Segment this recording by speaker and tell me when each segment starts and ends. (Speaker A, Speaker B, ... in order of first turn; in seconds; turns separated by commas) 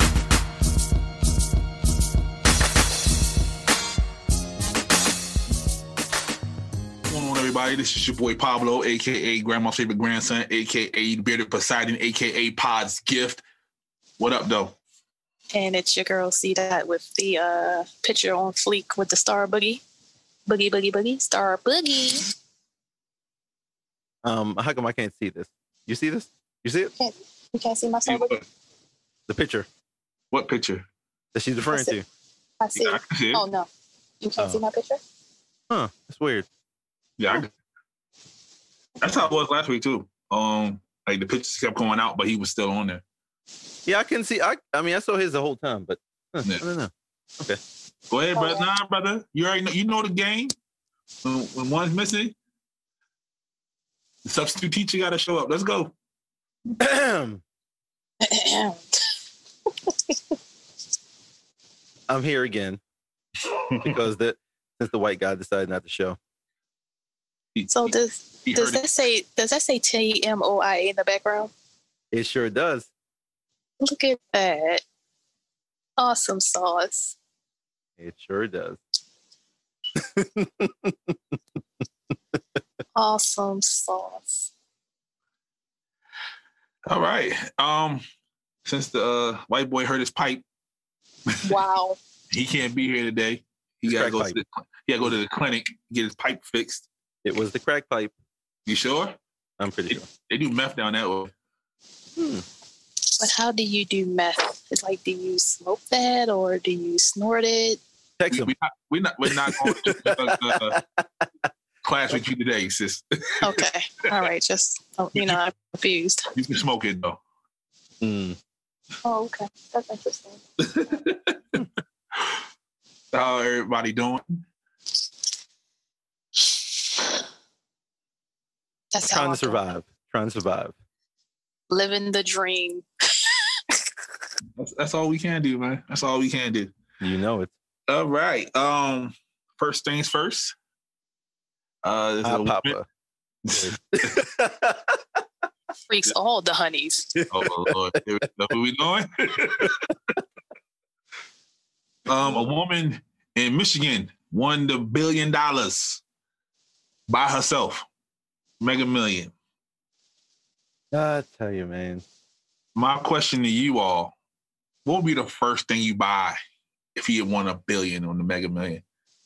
Speaker A: 7.1-13.4, Speaker A: 14.2-14.8, Speaker B: 15.5-19.8, Speaker B: 20.5-22.3, Speaker C: 24.2-26.9, Speaker B: 27.0-28.4, Speaker A: 28.1-28.4, Speaker C: 29.3-29.7, Speaker A: 30.3-30.9, Speaker C: 31.3-32.0, Speaker B: 31.7-32.0, Speaker B: 32.6-33.7, Speaker A: 32.8-33.4, Speaker B: 34.2-35.0, Speaker C: 35.7-36.5, Speaker A: 37.2-37.5, Speaker A: 39.0-43.0, Speaker C: 43.9-47.6, Speaker A: 48.1-50.5, Speaker B: 48.4-48.7, Speaker A: 51.2-52.4, Speaker A: 54.2-55.9, Speaker C: 56.8-57.4, Speaker B: 58.2-58.8, Speaker B: 59.9-60.1, Speaker C: 62.1-62.8, Speaker A: 63.5-64.0, Speaker C: 63.8-66.2, Speaker A: 67.5-67.9, Speaker B: 67.7-71.5, Speaker A: 68.5-68.8, Speaker C: 72.1-72.9, Speaker B: 73.8-74.8, Speaker B: 76.0-77.2, Speaker C: 78.0-78.8, Speaker C: 80.0-81.3, Speaker B: 83.0-84.5, Speaker A: 86.9-88.0, Speaker A: 88.7-90.4, Speaker A: 91.3-91.6, Speaker B: 91.4-92.0, Speaker A: 92.3-96.9, Speaker C: 93.8-94.4, Speaker C: 97.2-98.1, Speaker A: 98.7-99.2, Speaker C: 99.6-100.1, Speaker A: 99.9-101.3, Speaker C: 102.2-102.4, Speaker B: 103.2-107.8, Speaker C: 108.2-108.5, Speaker A: 108.3-110.8, Speaker C: 109.5-111.3, Speaker A: 111.8-113.6, Speaker B: 113.4-116.3, Speaker A: 116.3-117.2, Speaker C: 118.0-118.4, Speaker B: 119.0-120.4, Speaker A: 120.6-121.7, Speaker A: 123.1-124.4, Speaker B: 128.9-129.6, Speaker C: 129.1-130.7, Speaker B: 131.7-133.3, Speaker A: 134.6-136.7, Speaker C: 137.0-137.5, Speaker A: 137.9-140.6, Speaker A: 141.8-142.8, Speaker C: 142.2-142.9, Speaker A: 143.4-144.2, Speaker C: 143.5-145.0, Speaker B: 145.9-147.2, Speaker C: 147.2-147.8, Speaker A: 147.3-149.9, Speaker A: 152.1-156.0, Speaker A: 157.1-157.9, Speaker A: 158.6-159.3, Speaker C: 160.9-162.0, Speaker A: 162.8-164.2, Speaker A: 164.8-166.4, Speaker A: 166.9-168.8